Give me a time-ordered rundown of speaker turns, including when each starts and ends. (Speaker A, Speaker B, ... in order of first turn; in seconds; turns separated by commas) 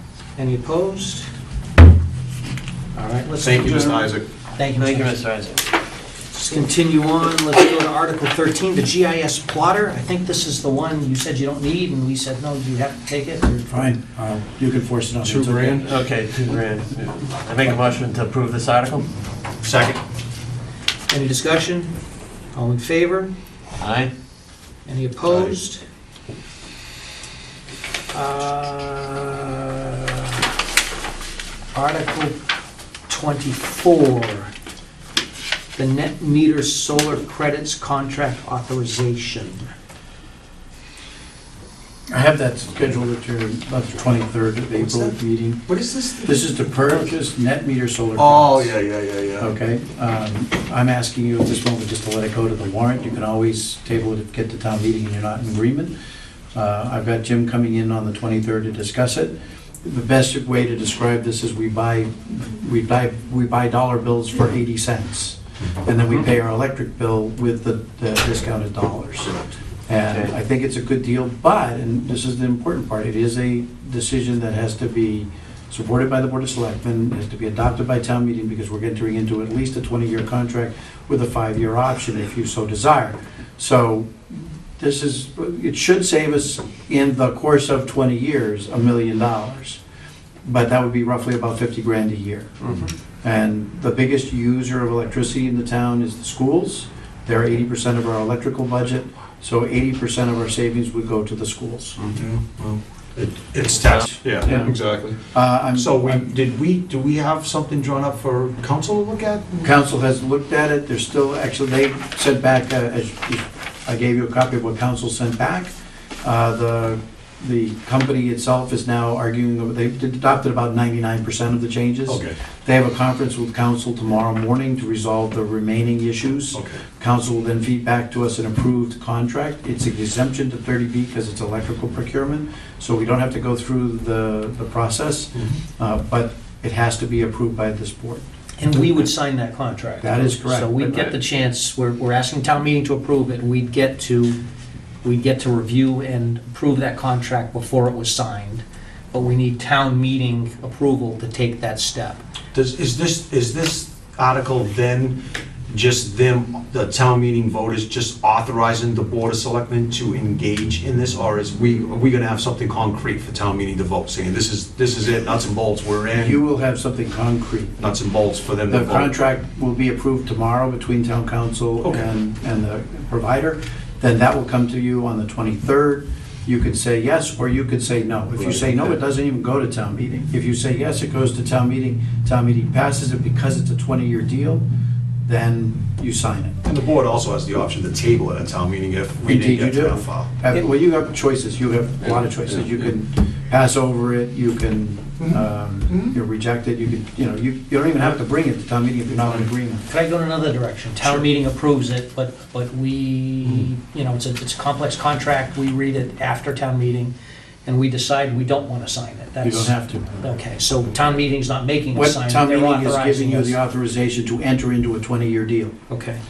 Speaker A: 0.3-1.2, Speaker A: 2.9-5.2, Speaker B: 3.4-4.2, Speaker C: 4.7-5.6, Speaker A: 6.3-13.9, Speaker D: 13.7-15.9, Speaker C: 15.2-19.1, Speaker B: 15.4-15.8, Speaker B: 19.6-20.0, Speaker A: 21.1-21.9, Speaker A: 22.5-23.3, Speaker C: 23.8-24.1, Speaker A: 24.9-25.8, Speaker A: 28.1-30.4, Speaker A: 31.7-32.4, Speaker A: 33.1-34.5, Speaker A: 35.7-39.6, Speaker D: 42.1-45.6, Speaker B: 44.7-45.1, Speaker B: 45.7-46.5, Speaker D: 46.2-48.7, Speaker B: 48.1-49.5, Speaker D: 49.4-55.9, Speaker D: 56.5-69.3, Speaker D: 69.9-89.8, Speaker D: 90.4-102.0, Speaker B: 102.1-105.2, Speaker D: 104.4-106.2, Speaker B: 105.7-109.7, Speaker D: 109.6-138.7, Speaker B: 122.1-122.3, Speaker B: 126.5-126.8, Speaker B: 135.3-135.6, Speaker A: 138.6-144.4, Speaker D: 140.0-141.1, Speaker A: 145.0-152.2, Speaker B: 152.5-166.4, Speaker D: 166.1-167.9, Speaker B: 167.8-169.1, Speaker D: 168.7-184.6, Speaker B: 171.8-172.1, Speaker B: 178.3-179.0, Speaker D: 185.2-186.6, Speaker B: 186.6-190.3, Speaker D: 189.2-199.8, Speaker B: 195.2-196.1, Speaker A: 199.8-207.1, Speaker A: 207.6-213.6, Speaker D: 209.4-210.1, Speaker D: 211.9-215.8, Speaker A: 215.9-216.2